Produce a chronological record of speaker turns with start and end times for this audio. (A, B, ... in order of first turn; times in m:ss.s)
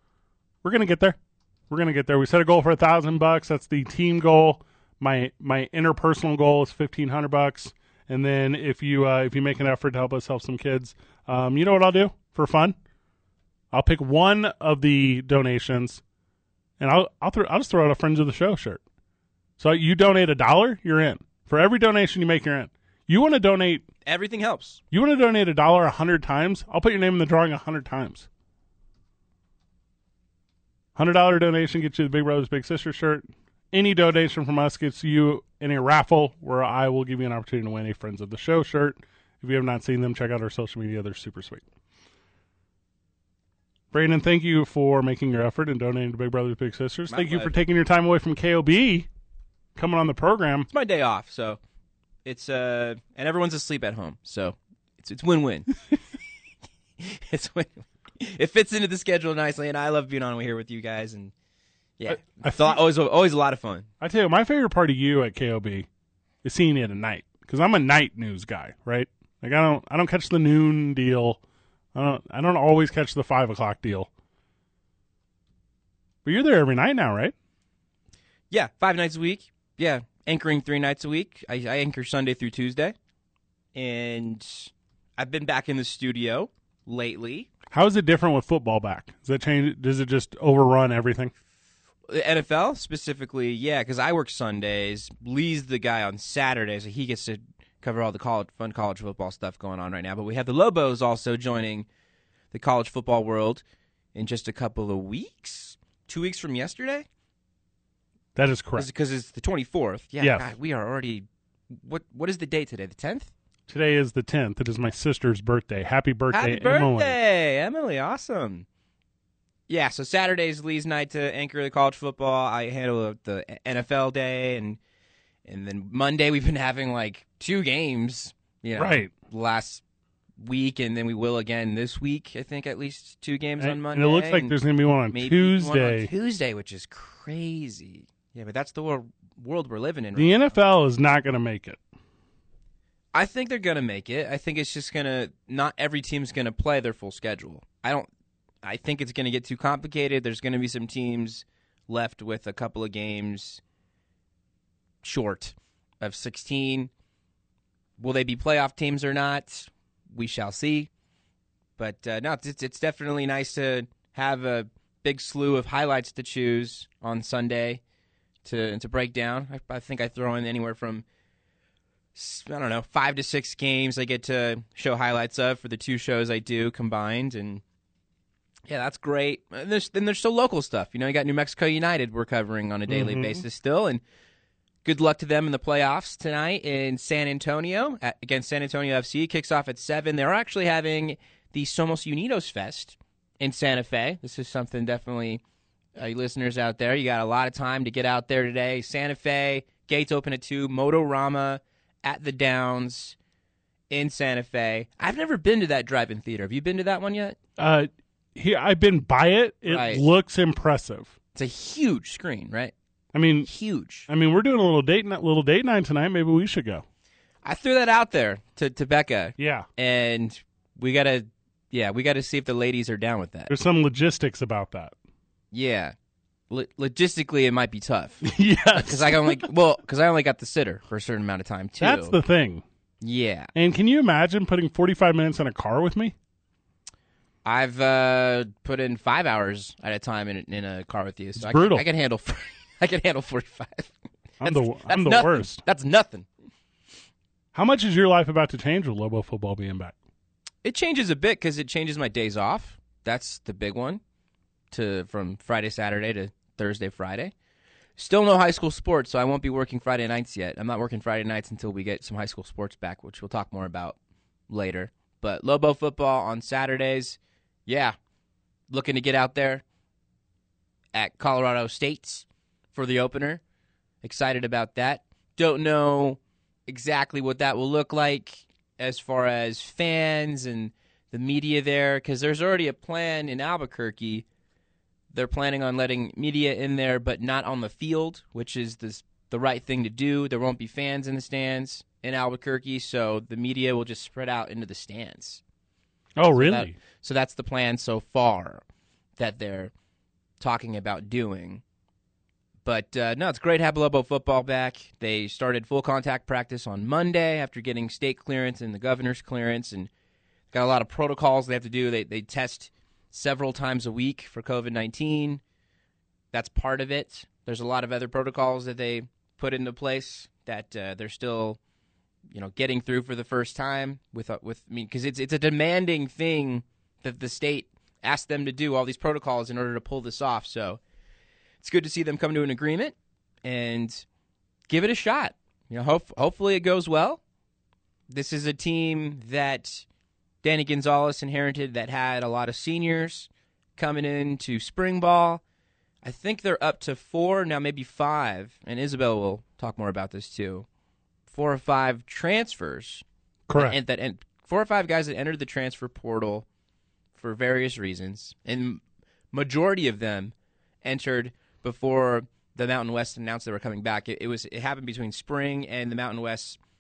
0:00.6-0:01.2 A
0:01.7-0:12.8 A
0:13.7-0:16.0 A
0:16.8-0:18.8 A
0:19.6-0:23.8 A
0:24.0-0:24.8 B
0:24.9-0:28.3 A
0:30.9-0:41.6 A
0:43.9-0:49.1 A
0:47.1-0:47.5 B
0:49.7-0:50.7 A
0:50.7-0:51.6 B
0:52.2-0:55.7 B
0:57.0-1:01.3 B
1:02.0-1:03.9 B
1:02.1-1:02.8 A
1:04.0-1:05.9 A
1:06.4-1:11.4 A
1:11.9-1:14.1 A
1:16.2-1:17.3 A
1:18.5-1:22.9 B
1:23.7-1:27.5 B
1:27.7-1:31.3 A
1:32.1-1:41.9 B
1:42.5-1:43.6 B
1:44.1-1:47.0 B
1:48.3-1:48.9 A
1:48.8-1:53.3 B
1:50.2-1:50.5 A
1:53.7-1:57.2 A
1:56.3-1:58.6 B
1:59.7-2:04.8 B
2:05.4-2:09.8 B
2:08.7-2:09.1 A
2:10.4-2:14.6 B
2:13.6-2:16.1 A
2:15.1-2:20.6 B
2:20.1-2:21.8 A
2:23.1-2:28.1 B
2:28.6-2:33.6 B
2:35.0-2:36.9 B
2:38.0-2:40.9 B
2:41.8-2:47.8 B
2:48.4-2:51.0 B
2:52.1-2:57.6 B
2:58.7-3:04.0 B
3:02.9-3:03.4 A
3:04.8-3:15.4 B
3:16.0-3:23.2 B
3:23.9-3:27.4 B
3:27.6-3:31.1 A
3:29.7-3:30.0 B
3:31.3-3:32.7 B
3:33.1-3:33.5 A
3:33.4-3:34.1 B
3:34.1-3:36.8 A
3:37.4-3:43.5 B
3:39.4-3:39.7 A
3:43.5-3:44.9 A
3:45.5-3:45.9 B
3:46.5-3:52.2 B
3:48.2-3:49.5 A
3:51.8-3:52.6 A
3:53.0-3:53.5 B
3:53.5-3:56.1 A
3:57.4-4:06.2 B
4:01.4-4:01.8 A
4:04.4-4:05.6 A
4:07.5-4:09.9 A
4:10.6-4:14.0 B
4:14.7-4:17.3 B
4:18.0-4:24.0 B
4:24.5-4:28.0 B
4:28.7-4:29.6 B
4:30.9-4:33.4 B
4:34.0-4:44.2 B
4:45.1-4:55.4 B
4:56.2-4:56.7 A
4:56.3-4:58.6 B
4:59.2-4:59.7 B
5:00.4-5:01.6 B
5:02.6-5:09.9 B
5:10.5-5:15.4 B
5:16.3-5:21.6 B
5:22.3-5:30.8 B
5:31.6-5:34.0 B
5:34.7-5:37.2 B
5:38.1-5:39.8 B
5:40.4-5:45.4 B
5:46.0-5:50.6 B
5:51.3-5:53.0 B
5:53.5-5:53.8 A
5:53.5-5:56.4 B
5:57.2-6:06.6 B